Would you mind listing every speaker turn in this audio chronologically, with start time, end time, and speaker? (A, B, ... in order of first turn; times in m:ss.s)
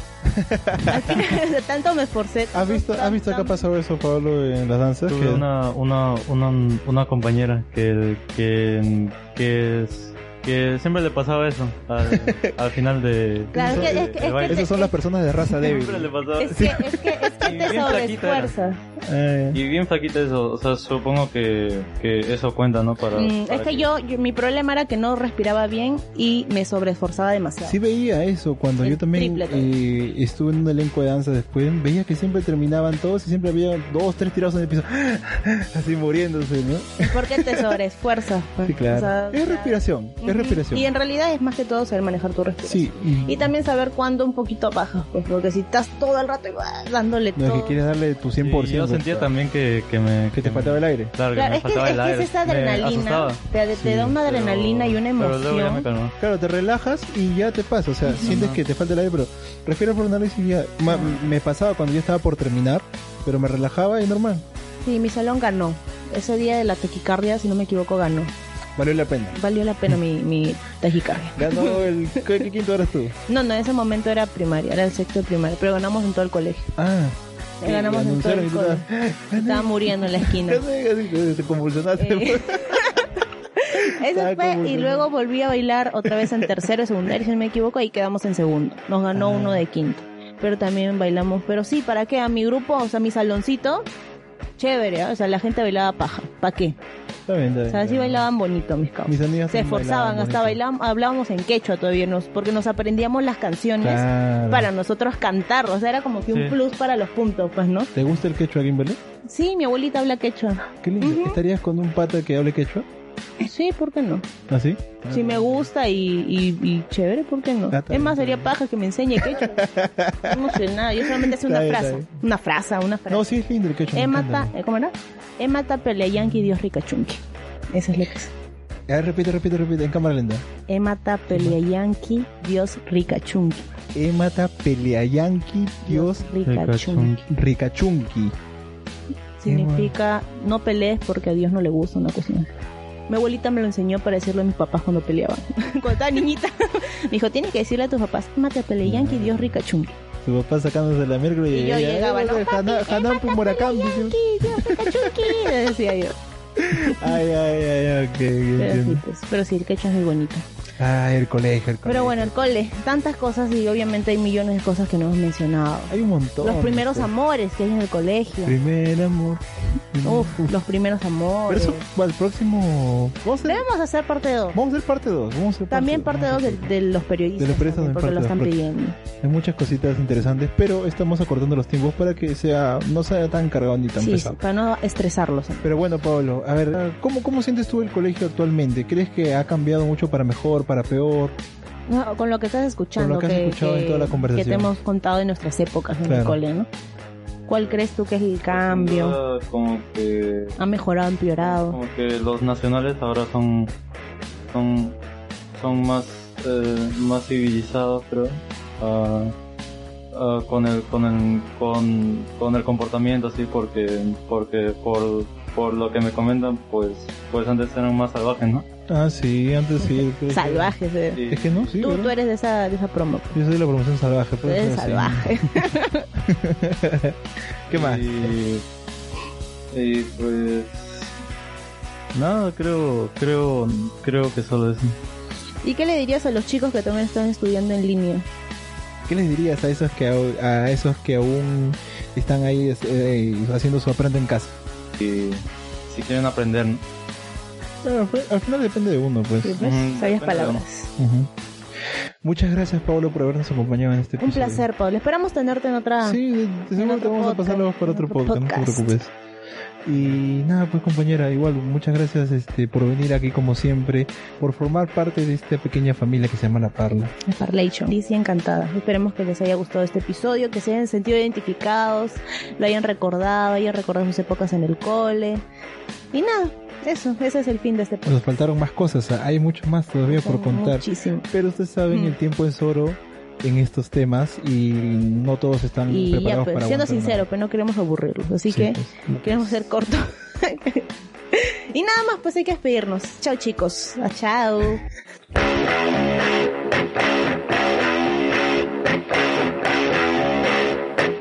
0:00.2-0:01.3 A
0:00.9-0:03.6 B
0:02.5-0:05.4 A
0:05.1-0:14.7 C
0:12.0-0:12.5 A
0:13.5-0:14.9 B
0:13.5-0:16.9 A
0:15.6-0:18.7 C
0:16.4-0:18.8 B
0:19.0-0:19.6 A
0:19.5-0:23.9 C
0:23.1-0:27.8 B
0:27.6-0:37.7 A
0:28.8-0:29.7 B
0:37.0-0:47.8 B
0:38.6-0:40.9 A
0:42.6-0:43.5 A
0:47.4-0:49.3 A
0:48.4-0:53.4 C
0:50.3-0:51.1 A
0:51.3-0:55.8 B
0:53.8-0:54.2 A
0:53.9-0:56.1 C
0:56.2-1:04.4 A
0:58.2-0:58.6 C
1:00.9-1:01.2 B
1:04.8-1:08.3 B
1:08.8-1:09.4 A
1:09.3-1:12.4 B
1:11.3-1:13.1 A
1:13.3-1:16.7 B
1:16.8-1:23.0 A
1:17.6-1:20.6 B
1:22.0-1:33.9 B
1:23.7-1:25.1 A
1:26.0-1:26.6 A
1:29.1-1:29.6 A
1:34.6-1:36.8 B
1:37.3-1:38.2 A
1:37.7-1:47.9 B
1:39.0-1:40.6 A
1:43.8-1:44.7 A
1:46.3-1:46.6 C
1:47.9-1:49.0 A
1:49.2-1:51.4 B
1:50.8-1:52.9 A
1:53.4-1:54.3 B
1:54.5-1:55.7 A
1:55.1-1:59.6 B
1:57.7-1:58.5 A
1:59.2-2:02.1 A
2:00.2-2:03.3 B
2:03.1-2:04.5 A
2:03.9-2:08.3 B
2:06.2-2:06.5 A
2:08.9-2:10.4 A
2:10.7-2:13.7 B
2:11.3-2:11.6 A
2:13.9-2:16.3 A
2:15.8-2:17.2 B
2:16.4-2:17.2 C
2:17.3-2:18.3 A
2:19.4-2:22.5 B
2:19.4-2:19.9 A
2:23.1-2:30.0 B
2:28.8-2:29.4 A
2:30.2-2:35.6 A
2:31.5-2:36.2 B
2:36.6-2:39.0 A
2:36.7-2:37.2 B
2:38.6-2:40.4 B
2:40.8-2:42.3 A
2:41.8-2:48.6 B
2:45.9-2:47.1 A
2:48.4-2:50.5 A
2:50.0-2:51.8 B
2:51.5-2:53.6 A
2:53.4-2:54.6 B
2:54.5-2:56.7 A
2:55.7-2:59.0 B
2:57.4-3:04.4 A
3:04.0-3:05.8 B
3:05.6-3:11.4 A
3:11.9-3:16.7 B
3:13.0-3:14.7 A
3:16.0-3:16.4 A
3:17.5-3:19.2 B
3:18.5-3:20.6 C
3:20.6-3:21.8 B
3:21.4-3:23.7 C
3:24.5-3:25.0 C
3:25.5-3:29.3 C
3:30.1-3:38.6 C
3:38.9-3:42.1 A
3:39.8-3:41.2 B
3:41.1-3:41.8 C
3:41.8-3:43.4 B
3:43.3-3:47.2 A
3:44.4-3:46.1 B
3:47.7-3:48.3 A
3:47.7-3:48.6 C
3:49.7-3:51.1 C
3:52.1-3:55.0 C
3:55.6-3:58.2 B
3:59.0-4:04.5 A
4:05.0-4:06.8 C
4:07.8-4:09.6 A
4:09.4-4:10.9 B
4:09.6-4:10.6 C
4:11.0-4:11.3 A
4:12.2-4:14.6 A
4:14.2-4:16.2 B
4:16.0-4:19.1 A
4:16.8-4:18.9 B
4:19.8-4:27.1 A
4:27.2-4:35.4 B
4:36.1-4:38.2 B
4:38.0-4:47.2 A
4:40.1-4:41.3 B
4:41.9-4:42.2 B
4:45.9-4:54.8 B
4:48.5-4:49.5 A